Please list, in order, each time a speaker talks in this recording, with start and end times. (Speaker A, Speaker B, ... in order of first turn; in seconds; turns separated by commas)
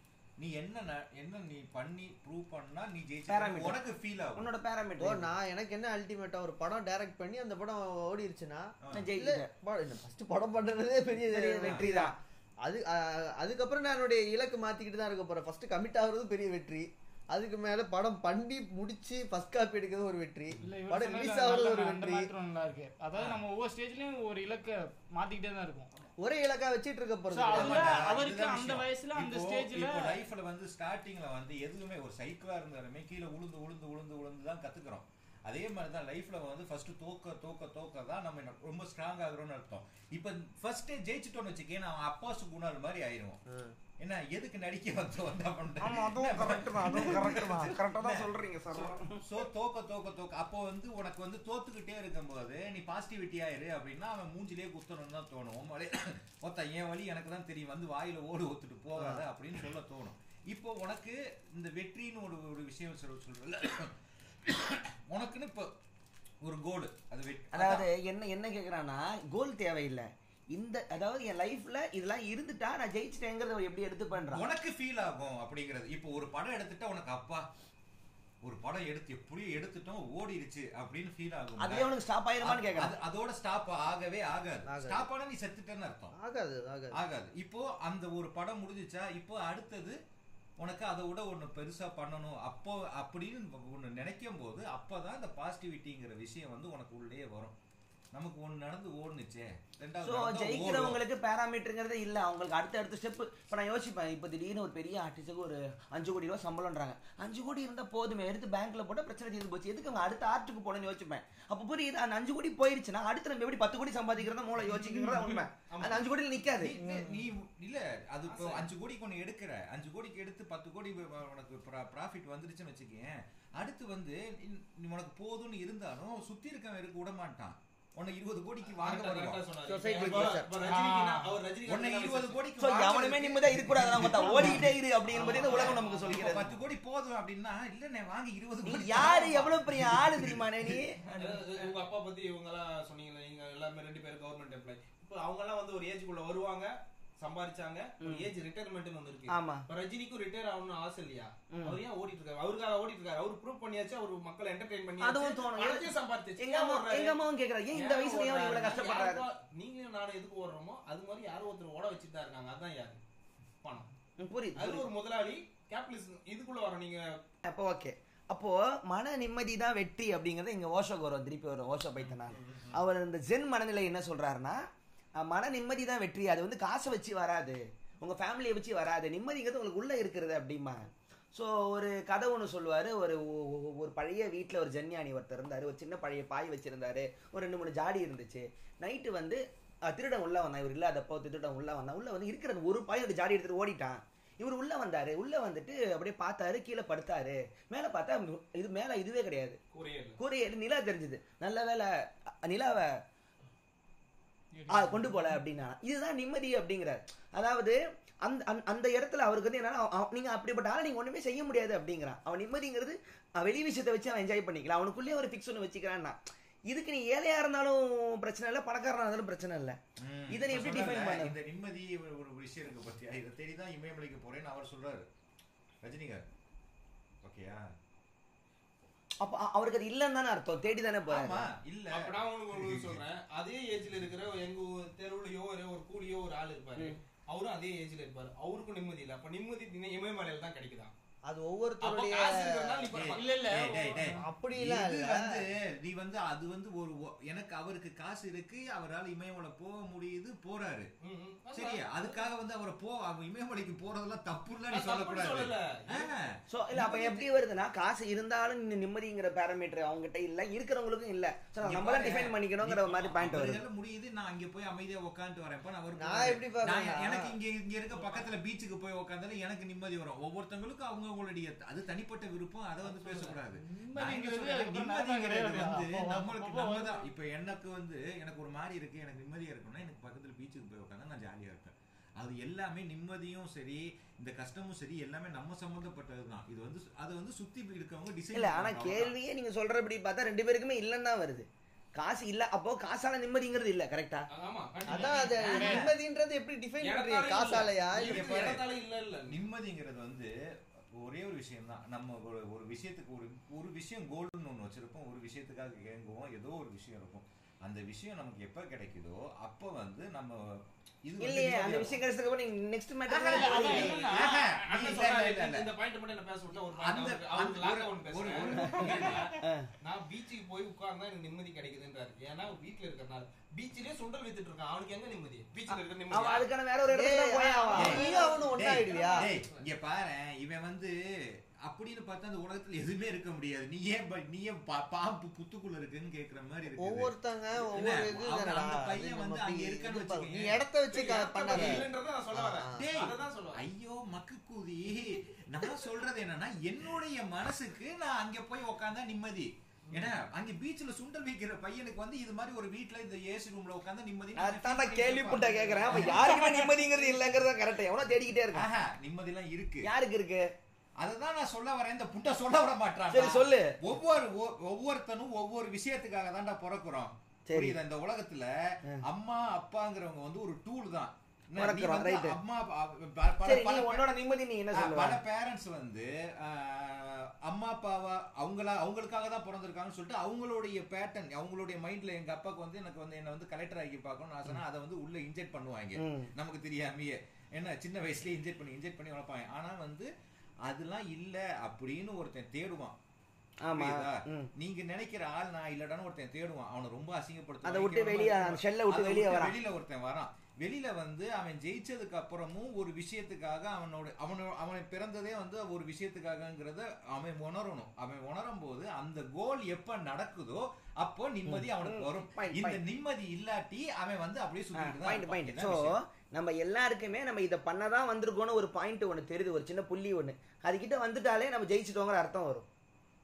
Speaker A: 0.4-4.5, Speaker B: 3.3-3.8, Speaker B: 4.3-5.3, Speaker C: 5.0-22.3, Speaker B: 8.9-9.5, Speaker B: 11.3-12.1, Speaker D: 20.6-25.9, Speaker C: 26.2-28.1, Speaker D: 27.3-30.2, Speaker A: 27.5-43.4, Speaker C: 43.5-43.8, Speaker A: 44.0-63.9, Speaker B: 45.8-49.2, Speaker A: 64.4-65.7, Speaker A: 66.4-67.8, Speaker B: 67.5-74.4, Speaker A: 74.3-77.4, Speaker A: 78.4-81.9, Speaker B: 81.6-83.0, Speaker A: 82.4-86.2, Speaker C: 84.7-85.1, Speaker C: 86.2-86.9, Speaker A: 86.9-90.0, Speaker A: 90.6-97.5, Speaker A: 98.1-101.0, Speaker B: 100.0-116.8, Speaker D: 114.8-115.3, Speaker E: 115.0-116.1, Speaker A: 116.6-129.4, Speaker D: 116.8-117.2, Speaker E: 118.3-118.7, Speaker E: 128.8-132.4, Speaker C: 129.6-130.5, Speaker D: 130.6-131.2, Speaker A: 131.7-134.7, Speaker B: 132.6-136.5, Speaker E: 135.1-136.6, Speaker A: 135.3-141.2, Speaker B: 138.6-141.0, Speaker E: 141.2-157.2, Speaker B: 148.0-148.3, Speaker B: 149.3-149.6, Speaker B: 151.5-151.8, Speaker B: 155.0-159.2, Speaker E: 157.7-163.0, Speaker E: 163.6-163.9, Speaker B: 164.2-164.8, Speaker E: 164.6-167.2, Speaker B: 167.4-174.6, Speaker E: 172.2-172.8, Speaker B: 175.2-199.6, Speaker E: 199.7-200.2, Speaker B: 200.2-203.0, Speaker D: 204.5-205.3, Speaker B: 204.7-216.2, Speaker B: 216.7-219.8, Speaker A: 220.0-225.1, Speaker B: 220.3-221.3, Speaker A: 225.8-226.2, Speaker A: 227.2-227.6, Speaker B: 229.2-231.4, Speaker A: 231.1-233.0, Speaker E: 231.9-240.9, Speaker C: 241.3-242.9, Speaker E: 241.8-243.2, Speaker A: 242.9-250.9, Speaker D: 243.1-244.2, Speaker C: 244.2-245.4, Speaker E: 251.0-252.2, Speaker A: 251.5-257.2, Speaker E: 254.7-256.1, Speaker B: 256.5-263.6, Speaker A: 261.6-289.1, Speaker C: 266.0-267.3, Speaker E: 267.9-268.2, Speaker D: 272.9-277.1, Speaker B: 288.3-294.3, Speaker E: 294.3-295.4, Speaker C: 294.9-298.4, Speaker D: 294.9-295.8, Speaker A: 295.4-295.9, Speaker E: 296.8-299.4, Speaker A: 297.9-298.6, Speaker A: 299.3-300.3, Speaker A: 301.0-310.4, Speaker A: 311.0-312.0, Speaker B: 311.2-313.9, Speaker A: 313.1-315.7, Speaker D: 313.2-314.4, Speaker E: 313.7-326.5, Speaker A: 316.8-319.2, Speaker B: 318.5-319.7, Speaker B: 325.7-328.1, Speaker C: 326.9-329.3, Speaker E: 327.7-329.6, Speaker A: 327.8-330.9, Speaker A: 331.6-337.1, Speaker C: 336.8-342.9, Speaker A: 337.7-340.6, Speaker E: 340.9-343.6, Speaker A: 341.5-341.8, Speaker A: 342.8-356.4, Speaker E: 349.9-350.2, Speaker B: 354.4-358.6, Speaker D: 355.9-356.5, Speaker A: 358.5-359.9, Speaker B: 359.8-360.4, Speaker A: 361.0-374.1, Speaker B: 363.1-363.8, Speaker B: 367.5-367.8, Speaker B: 371.6-372.4, Speaker B: 373.4-375.2, Speaker A: 374.7-390.1, Speaker B: 386.0-386.3, Speaker A: 390.6-392.9, Speaker B: 393.6-394.5, Speaker A: 393.7-416.0, Speaker B: 397.6-399.5, Speaker B: 411.4-412.8, Speaker B: 414.7-422.6